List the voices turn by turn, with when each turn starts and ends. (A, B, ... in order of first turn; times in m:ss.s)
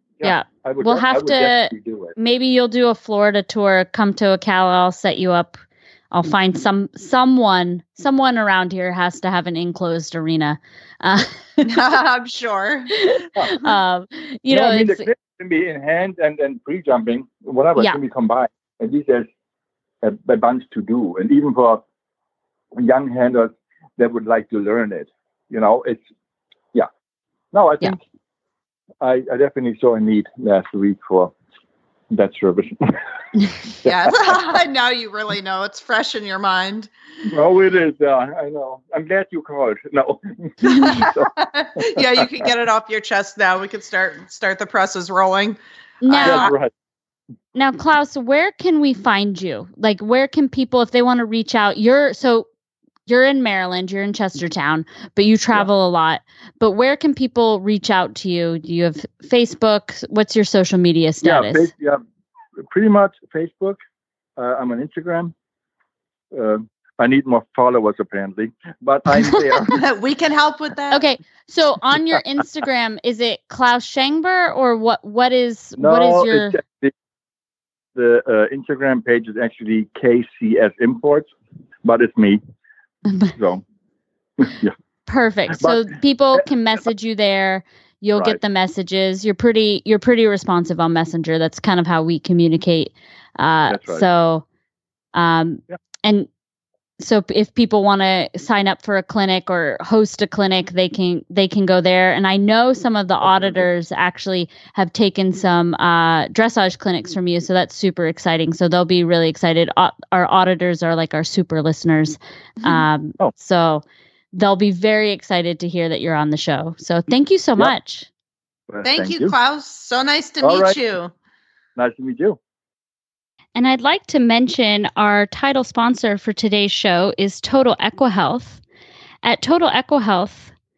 0:00.2-0:02.2 A
0:00.2-0:05.6 B
0:06.1-0:11.7 B
0:11.6-0:13.0 C
0:13.0-0:15.1 B
0:14.5-0:19.3 A
0:20.0-0:21.8 A
0:22.8-0:26.0 A
0:27.5-0:28.0 A
0:29.0-0:31.3 A
0:32.1-0:33.0 A
0:33.8-0:34.1 A
0:33.8-0:36.9 C
0:37.3-0:41.3 A
0:40.7-0:41.0 B
0:40.7-0:46.5 C
0:41.8-0:42.5 A
0:46.0-0:46.5 B
0:46.2-0:46.7 A
0:47.5-0:52.5 B
0:53.1-1:01.7 B
1:01.2-1:02.0 A
1:02.6-1:03.8 A
1:04.4-1:05.3 A
1:06.3-1:09.8 A
1:09.2-1:09.6 B
1:09.7-1:11.0 C
1:10.9-1:16.6 B
1:15.8-1:16.9 A
1:18.0-1:21.3 A
1:21.8-1:22.4 A
1:23.1-1:23.3 B
1:23.3-1:23.6 A
1:24.4-1:24.7 A
1:25.1-1:34.4 B
1:25.5-1:25.8 A
1:33.7-1:34.0 A
1:35.1-1:36.3 B
1:37.0-1:58.1 B
1:43.2-1:43.6 A
1:58.7-1:59.4 A
1:58.8-2:01.1 C
2:00.4-2:00.8 A
2:01.8-2:02.4 A
2:03.6-2:08.6 B
2:09.2-2:10.5 B